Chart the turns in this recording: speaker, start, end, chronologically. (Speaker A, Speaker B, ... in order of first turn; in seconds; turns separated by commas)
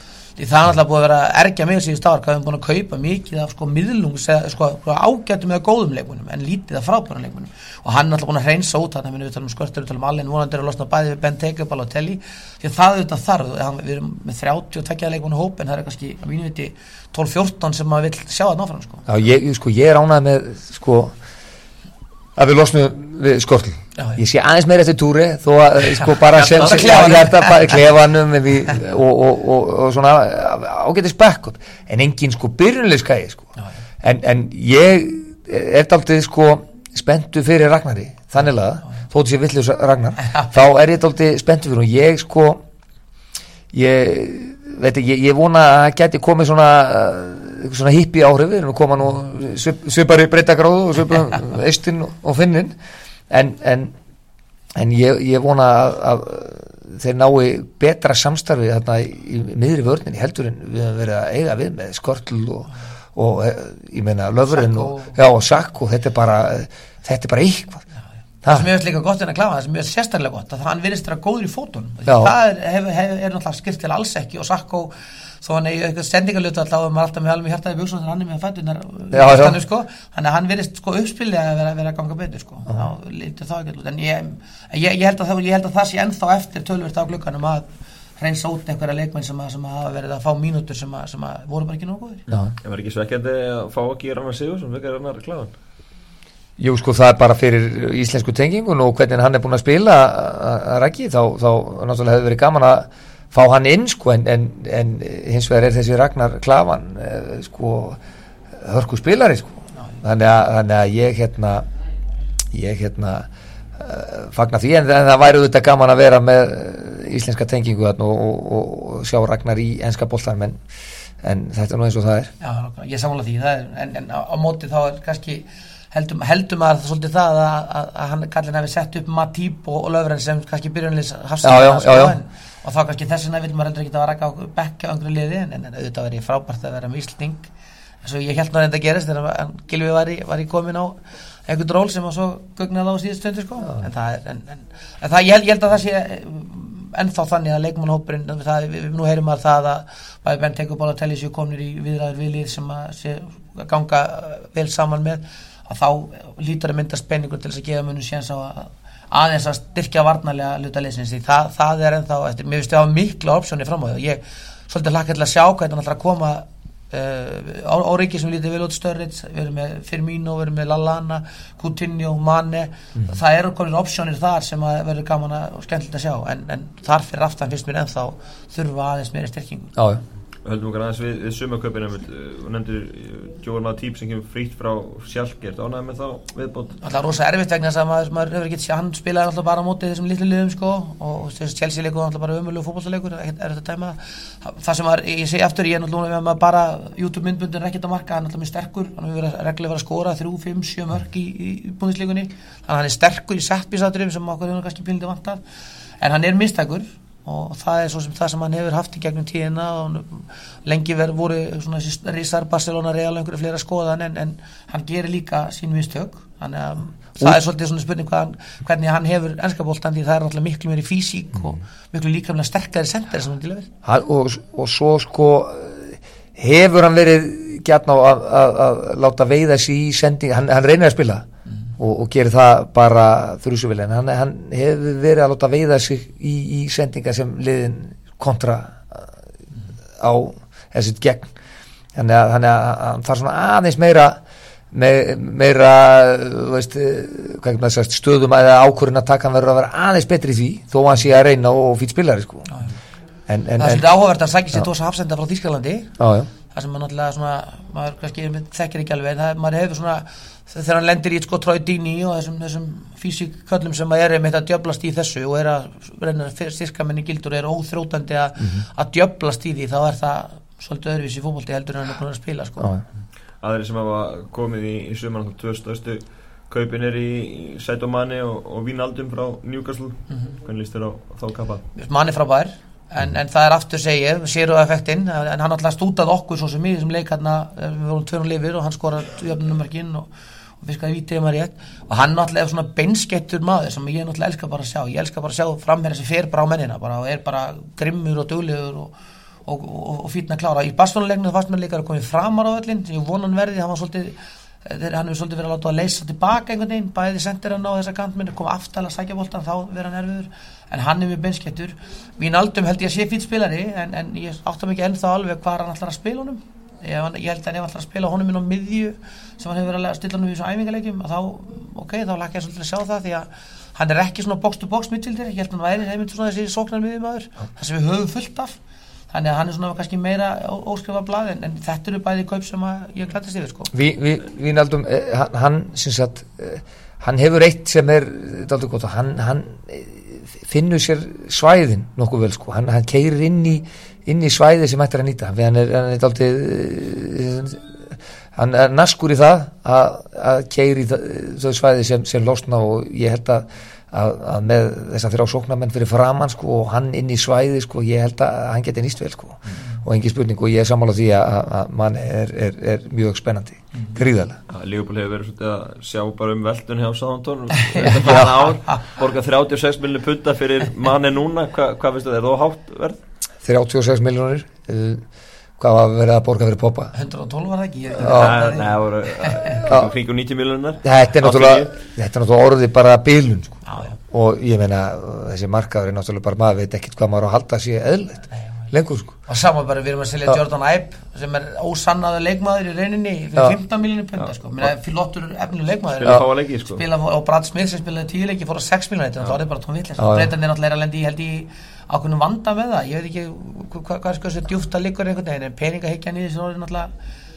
Speaker A: 0.4-19.1, Speaker B: 19.1-21.1, Speaker B: 22.4-42.6, Speaker A: 26.0-27.8, Speaker C: 26.3-27.0, Speaker B: 43.7-52.7, Speaker B: 53.3-53.9, Speaker B: 54.8-67.8, Speaker A: 64.5-65.2, Speaker A: 68.5-87.7, Speaker B: 72.1-72.3, Speaker B: 79.1-79.6, Speaker A: 88.2-92.2, Speaker C: 92.6-95.5, Speaker B: 96.6-108.0, Speaker B: 108.6-111.7, Speaker B: 112.5-120.6, Speaker B: 121.2-122.3, Speaker A: 122.4-137.4, Speaker B: 131.4-132.2, Speaker A: 138.0-179.8, Speaker B: 179.8-180.0, Speaker C: 180.4-186.8, Speaker A: 186.8-205.4, Speaker A: 206.0-223.7, Speaker B: 223.8-231.3, Speaker B: 231.8-239.1, Speaker B: 240.0-241.3, Speaker B: 242.0-244.2, Speaker B: 244.7-252.5, Speaker B: 253.3-253.8, Speaker A: 253.6-255.9, Speaker B: 256.0-256.3, Speaker A: 256.5-272.7, Speaker B: 268.4-268.6, Speaker C: 273.4-281.6, Speaker A: 281.8-290.1, Speaker A: 290.6-298.9, Speaker A: 299.5-328.6, Speaker A: 329.1-333.7, Speaker B: 333.7-364.4, Speaker C: 364.5-373.0, Speaker A: 367.6-368.8, Speaker B: 367.8-368.5, Speaker B: 373.4-375.0, Speaker B: 375.6-376.9, Speaker A: 376.9-379.6, Speaker C: 378.0-381.7, Speaker B: 378.0-378.3, Speaker B: 379.5-379.9, Speaker B: 380.8-389.2, Speaker A: 383.7-384.0, Speaker A: 389.3-406.9, Speaker C: 396.0-396.8, Speaker B: 400.0-400.3